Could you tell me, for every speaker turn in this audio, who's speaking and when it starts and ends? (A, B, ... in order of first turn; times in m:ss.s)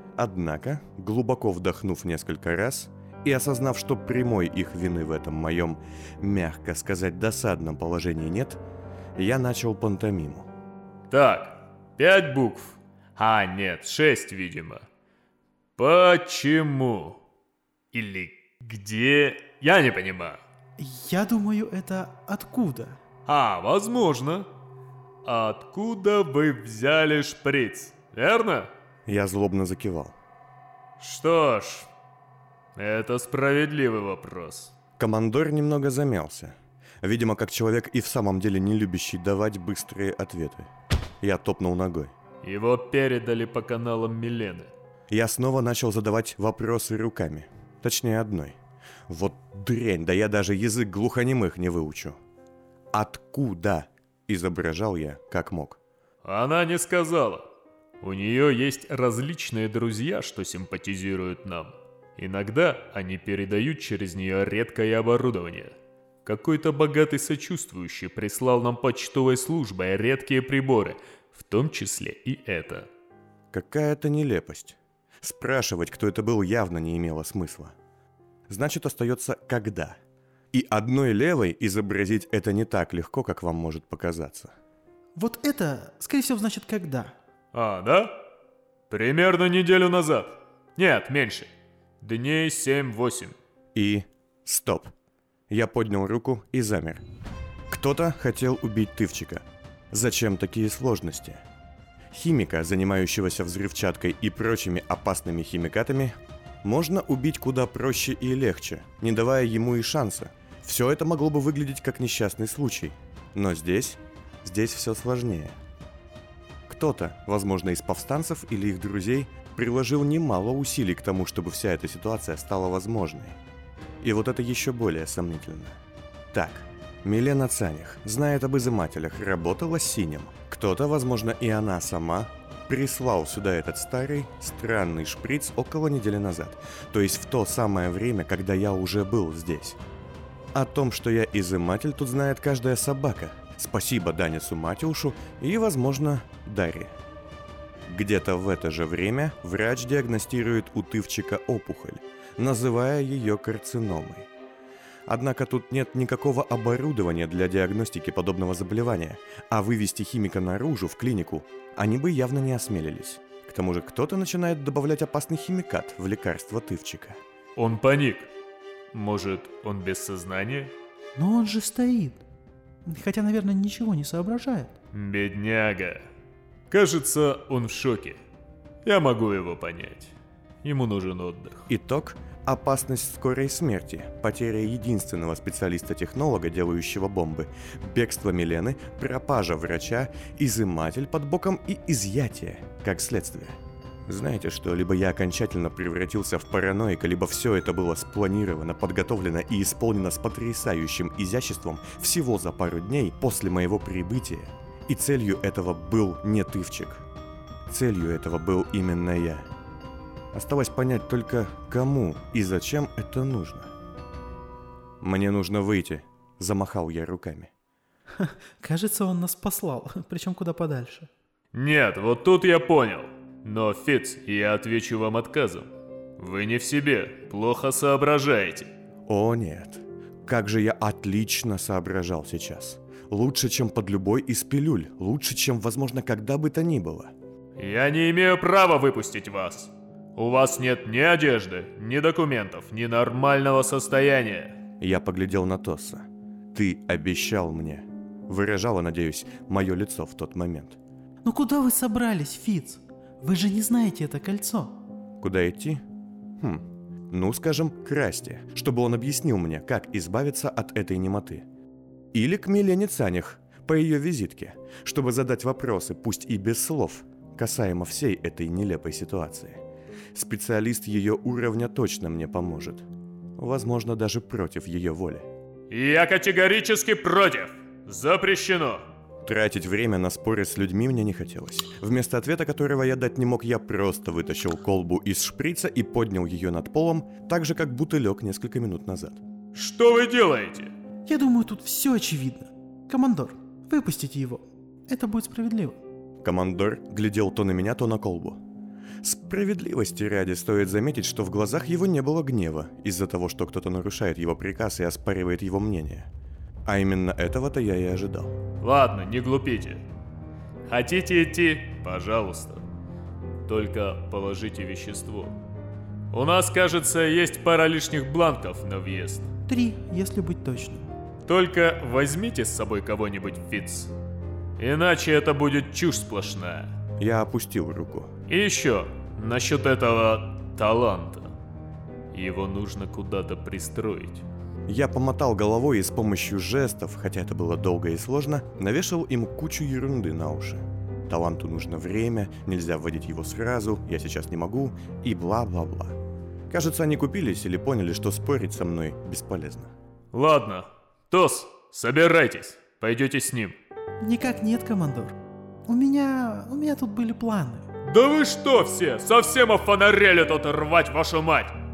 0:00.2-0:08.6 A
0:09.2-0:10.5 A
0:11.1-0:14.8 B
0:15.8-0:17.2 B
0:17.9-0:20.4 B
0:20.8-0:23.0 C
0:23.2-0:24.5 B
0:25.2-0:28.7 B
0:29.0-0:30.1 A
0:31.0-0:31.9 B
0:32.7-0:34.7 B
0:35.0-0:40.7 A
0:41.2-0:42.1 A
0:42.4-0:44.7 B
0:45.1-0:48.6 A
0:49.1-0:52.2 A
0:52.9-0:55.8 A
0:56.2-0:57.5 B
0:58.0-1:05.7 B
1:06.2-1:12.9 B
1:13.5-1:17.7 A
1:18.5-1:20.0 A
1:20.5-1:24.5 A
1:25.1-1:27.1 C
1:27.5-1:28.2 B
1:28.9-1:31.5 B
1:32.0-1:33.3 B
1:33.7-1:34.9 A
1:35.5-1:37.0 A
1:37.7-1:41.4 A
1:42.1-1:55.6 A
1:56.7-2:03.4 A
2:04.0-2:05.8 A
2:06.3-2:19.8 A
2:20.5-2:26.9 A
2:27.9-2:34.3 A
2:35.1-2:47.2 A
2:47.6-2:48.3 B
2:48.9-2:50.7 B
2:51.2-2:52.2 C
2:52.8-2:54.7 C
2:54.9-2:56.1 B
2:56.7-2:58.2 B
2:58.8-3:01.7 B
3:01.7-3:27.0 A
3:27.7-3:29.5 A
3:30.3-3:33.7 A
3:35.0-3:37.5 A
3:38.1-3:41.1 C
3:41.5-3:48.7 B
3:49.1-3:57.1 A
3:57.6-4:04.6 B
4:04.8-4:10.8 A
4:11.2-4:14.8 C
4:15.2-4:15.8 A
4:16.4-4:21.4 A
4:22.1-4:29.6 A
4:30.1-4:32.8 A
4:33.4-4:35.3 A
4:35.7-4:38.8 B
4:39.2-4:49.2 A
4:49.5-4:50.7 B
4:51.0-4:55.8 C
4:56.2-4:58.4 A
4:59.0-5:06.1 A
5:06.6-5:08.4 A
5:08.6-5:09.8 B
5:10.7-5:12.6 B
5:13.4-5:15.4 B
5:16.1-5:19.3 B
5:19.5-5:20.9 C
5:21.2-5:23.9 B
5:24.6-5:26.7 B
5:27.0-5:28.1 A
5:28.3-5:31.3 B
5:32.1-5:34.2 B
5:34.7-5:46.0 A
5:46.5-5:49.7 A
5:50.1-5:53.6 B
5:54.0-5:55.1 C
5:55.6-5:57.7 C
5:57.8-6:01.6 B